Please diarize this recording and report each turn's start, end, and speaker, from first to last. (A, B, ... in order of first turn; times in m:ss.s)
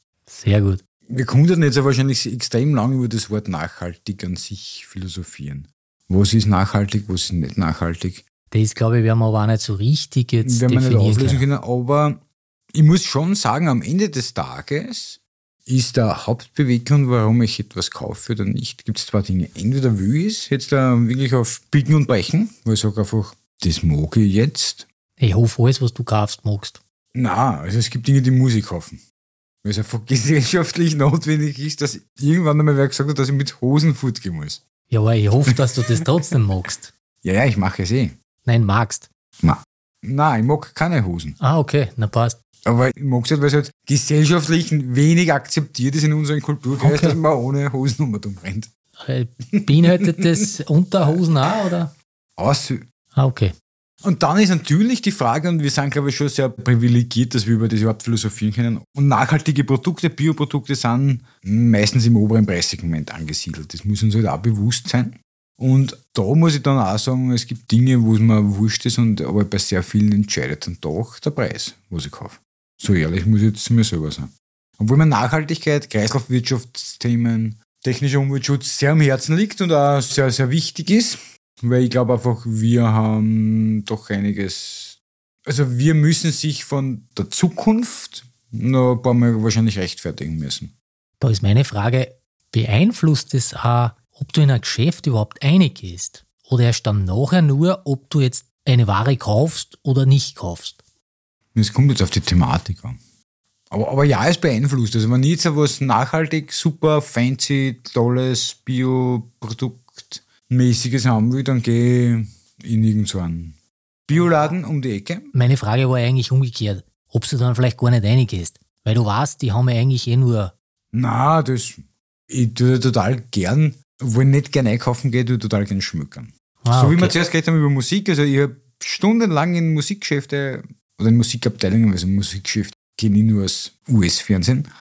0:00.3-0:00.8 A
0:01.1-0:08.2 B
0:08.5-0:11.4 A
0:10.4-0:12.2 B
0:12.7-0:24.8 B
0:25.2-0:26.8 A
0:27.1-0:29.0 B
0:29.6-0:34.6 B
0:34.9-0:36.9 A
0:35.5-0:36.0 B
0:37.2-0:38.2 B
0:38.4-0:39.1 A
0:39.4-0:41.4 B
0:41.4-0:42.4 A
0:42.6-0:48.7 B
0:46.8-0:47.2 A
0:49.0-0:51.9 A
0:49.5-0:50.3 B
0:52.4-0:52.8 B
0:53.2-0:53.5 A
0:54.0-1:30.7 B
1:31.2-1:40.8 A
1:41.5-1:43.0 B
1:43.7-1:53.6 B
1:54.1-1:55.3 B
1:54.1-1:54.5 A
1:55.3-2:00.5 A
2:00.9-2:14.7 B
2:06.6-2:07.2 A